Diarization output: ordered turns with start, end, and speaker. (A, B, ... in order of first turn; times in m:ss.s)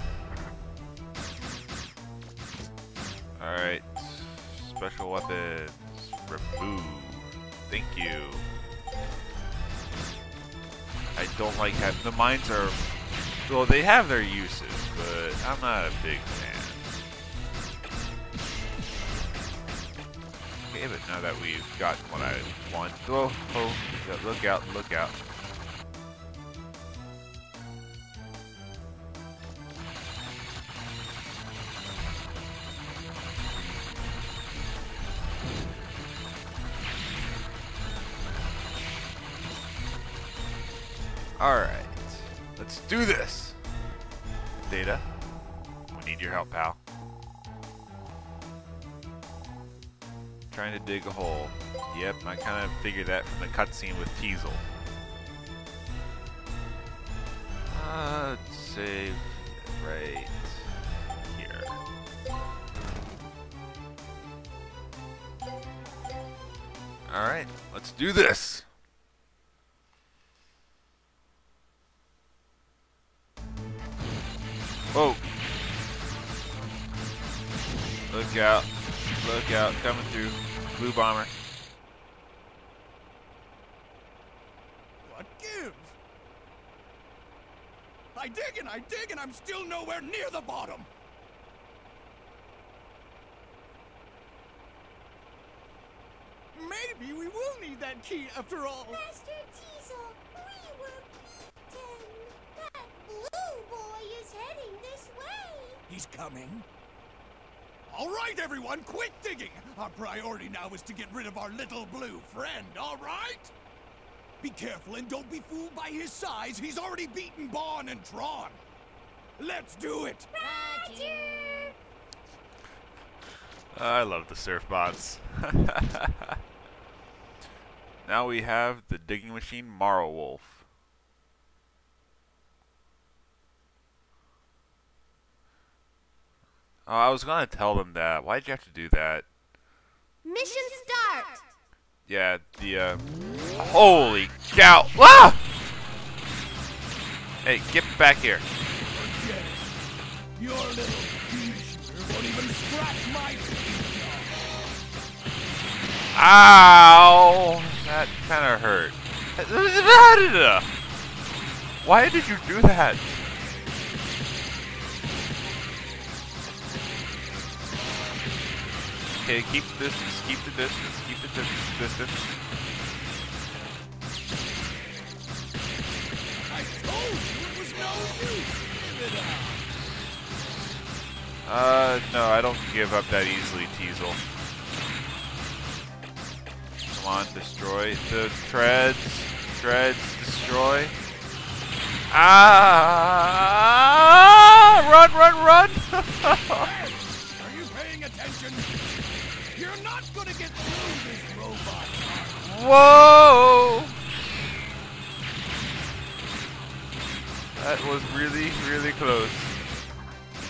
0:03.4-0:08.5 A
0:11.2-0:12.8 A
0:13.5-0:16.9 A
0:20.7-0:25.2 A
0:41.4-0:43.6 A
0:44.6-0:45.1 A
0:45.9-0:46.8 A
0:50.5-0:54.6 A
0:57.7-1:01.8 A
1:07.1-1:08.7 A
1:14.9-1:15.2 A
1:18.1-1:21.3 A
1:25.0-1:26.0 B
1:28.2-1:30.9 B
1:36.6-1:39.0 B
1:38.9-1:45.8 C
1:45.9-1:46.7 B
1:47.9-1:53.5 B
1:54.4-1:58.6 B
1:59.4-2:00.3 B
2:00.4-2:01.8 C
2:03.7-2:06.4 A
2:08.0-2:10.6 A
2:16.9-2:19.3 A
2:20.2-2:21.3 C
2:22.1-2:23.0 A
2:23.5-2:25.4 A
2:27.4-2:28.5 A
2:28.9-2:29.7 B
2:30.4-2:34.3 B
2:36.1-2:40.7 A
2:41.8-2:43.2 A
2:49.2-2:52.4 A
2:56.5-2:59.6 B
3:01.5-3:04.2 A
3:06.9-3:11.0 A
3:12.1-3:16.6 A
3:16.5-3:18.7 B
3:19.5-3:22.5 B
3:22.4-3:24.0 A
3:27.6-3:29.6 A